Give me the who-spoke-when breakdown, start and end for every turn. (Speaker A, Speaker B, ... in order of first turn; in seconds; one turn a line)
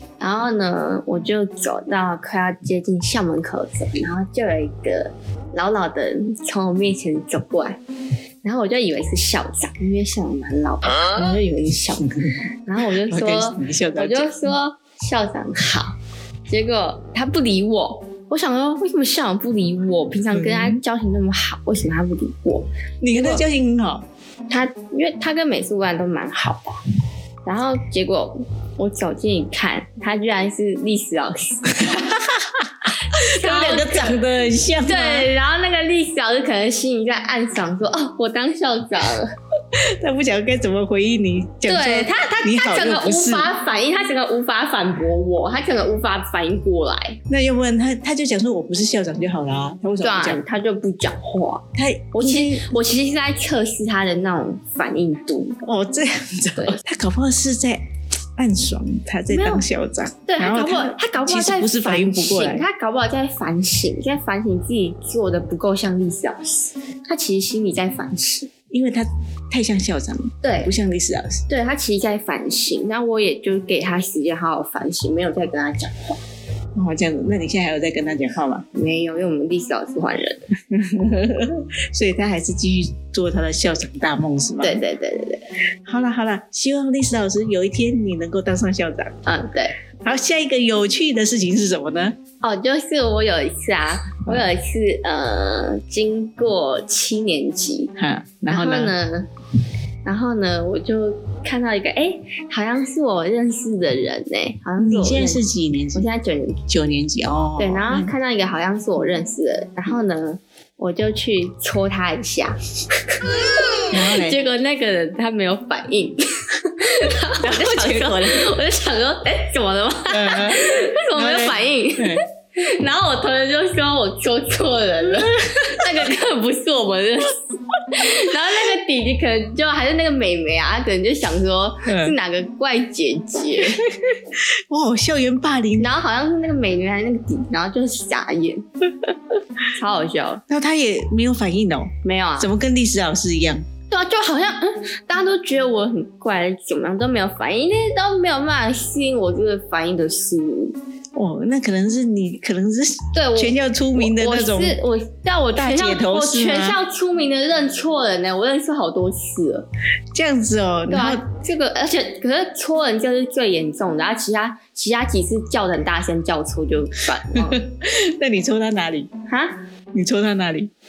Speaker A: 0.2-7.8
Speaker A: 8.4-11.1
Speaker B: 11.1-12.4
Speaker A: 12.7-15.9
Speaker B: 13.1-14.5
Speaker A: 16.5-23.4
Speaker B: 20.3-20.8
Speaker B: 23.0-24.1
Speaker A: 24.5-26.8
Speaker A: 27.4-31.7
Speaker B: 31.7-35.3
Speaker A: 33.0-34.2
Speaker A: 34.8-39.3
Speaker B: 39.7-43.5
Speaker A: 41.7-47.2
Speaker B: 47.3-50.4
Speaker A: 50.0-55.6
Speaker B: 51.7-52.7
Speaker B: 55.6-57.8
Speaker B: 58.4-62.6
Speaker A: 59.3-59.6
Speaker A: 60.2-68.5
Speaker B: 68.7-71.4
Speaker A: 70.4-70.7
Speaker A: 71.5-76.2
Speaker B: 76.7-78.7
Speaker A: 78.7-80.4
Speaker B: 80.7-84.8
Speaker A: 84.6-85.5
Speaker B: 85.8-89.1
Speaker A: 89.2-89.7
Speaker B: 90.0-92.2
Speaker A: 92.4-97.9
Speaker B: 98.0-98.9
Speaker A: 98.5-99.3
Speaker A: 100.0-105.4
Speaker B: 104.8-106.1
Speaker A: 105.9-106.6
Speaker B: 106.7-108.1
Speaker A: 107.6-113.3
Speaker A: 113.9-133.8
Speaker B: 113.9-114.4
Speaker B: 117.4-118.5
Speaker B: 120.1-122.2
Speaker B: 125.5-125.8
Speaker B: 131.8-132.1
Speaker B: 133.9-135.9
Speaker A: 135.8-138.6
Speaker A: 139.7-140.4
Speaker B: 140.5-143.7
Speaker A: 142.0-142.5
Speaker A: 143.9-150.7
Speaker B: 151.1-154.8
Speaker A: 153.1-159.7
Speaker B: 155.6-156.8
Speaker B: 160.1-161.2
Speaker A: 160.9-167.6
Speaker B: 167.3-169.1
Speaker A: 169.3-169.6
Speaker B: 169.9-170.7